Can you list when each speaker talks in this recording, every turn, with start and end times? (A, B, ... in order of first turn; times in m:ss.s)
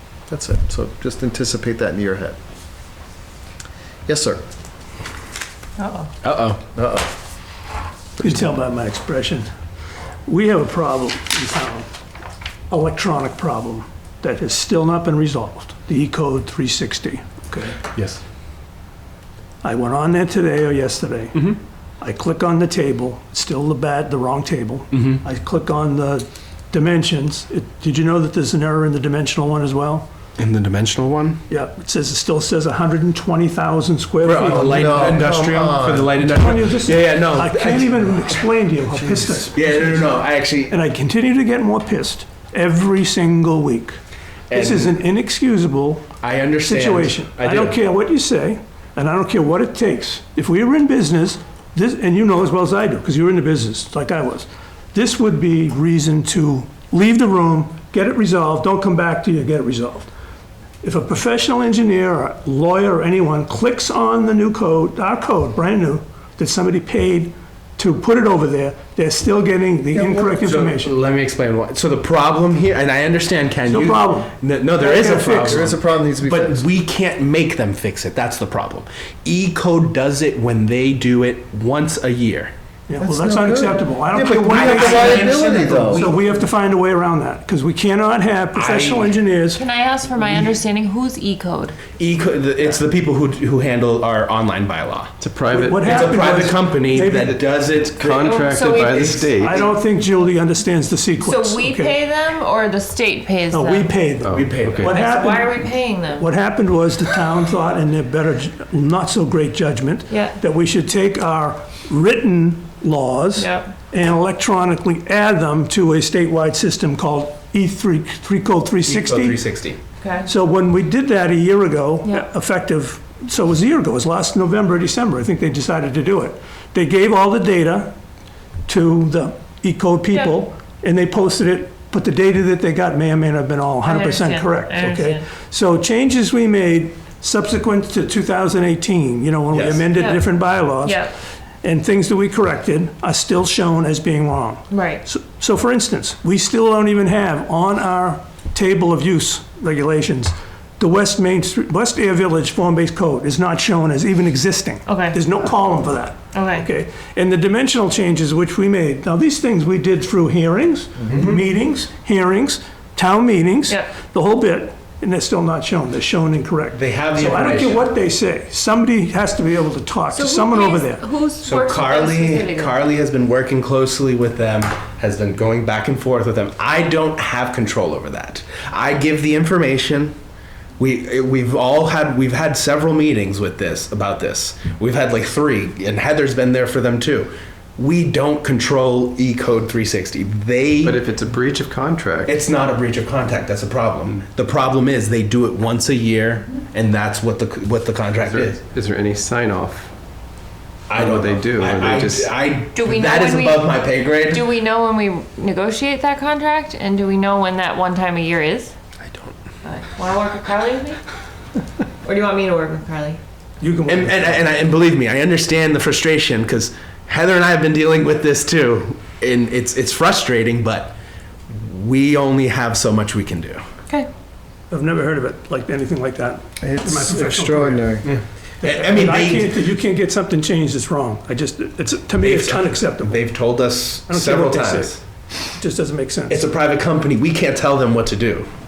0:00.3-0:02.4 A
0:04.1-0:04.4 A
0:05.8-0:06.1 B
0:06.2-0:06.6 C
0:06.7-0:07.1 A
0:08.2-0:09.4 D
0:10.2-0:11.9 D
0:12.7-0:17.8 D
0:17.9-0:18.2 C
0:19.6-0:21.4 D
0:22.0-0:30.1 D
0:24.9-0:25.2 C
0:30.4-0:31.4 C
0:31.5-0:35.2 D
0:34.2-0:38.4 C
0:34.6-0:36.1 A
0:36.2-0:44.0 D
0:39.5-0:40.8 C
0:44.5-0:44.9 C
0:44.5-0:46.1 D
0:46.2-0:47.8 C
0:46.6-1:00.1 D
1:00.8-1:10.9 D
1:09.9-1:22.5 C
1:13.6-1:15.7 D
1:15.4-1:16.6 A
1:22.9-1:29.6 D
1:23.0-1:26.1 A
1:24.5-1:26.2 C
1:28.5-1:29.2 C
1:29.6-1:31.8 B
1:32.0-1:35.1 C
1:35.2-1:36.0 E
1:35.5-1:37.4 D
1:35.7-1:39.7 C
1:37.9-1:39.6 E
1:38.2-1:39.2 B
1:39.4-1:42.0 D
1:41.2-1:43.9 B
1:43.5-1:59.4 D
1:44.2-1:45.0 E
1:44.3-1:45.0 C
1:44.8-1:46.2 B
1:50.1-1:50.3 B
1:53.4-1:53.7 B
1:58.8-1:59.8 C
2:00.0-2:00.3 B
2:00.2-2:07.9 D
2:08.7-2:21.1 D
2:13.8-2:15.2 B
2:19.5-2:19.9 C
2:19.9-2:20.2 B
2:20.8-2:21.1 B
2:21.6-2:51.0 D
2:24.7-2:25.0 B
2:34.9-2:35.2 B
2:36.3-2:36.7 B
2:41.1-2:41.4 C
2:46.7-2:47.8 C
2:50.1-2:52.8 B
2:51.4-3:00.1 C
3:00.8-3:11.0 C
3:10.8-3:12.3 E
3:12.2-3:18.6 C
3:18.2-3:19.9 E
3:20.9-3:24.4 C
3:20.9-3:22.3 E
3:22.7-3:28.7 B
3:29.0-3:29.3 C
3:29.6-3:31.0 B
3:32.0-3:33.2 B
3:33.6-3:34.5 D
3:33.9-3:40.9 C
3:41.5-3:43.6 C
3:44.7-3:48.1 D
3:46.6-3:48.1 A
3:48.1-3:49.5 C
3:48.6-3:53.2 D
3:52.2-3:55.0 C
3:54.1-3:56.4 D
3:56.3-3:58.5 C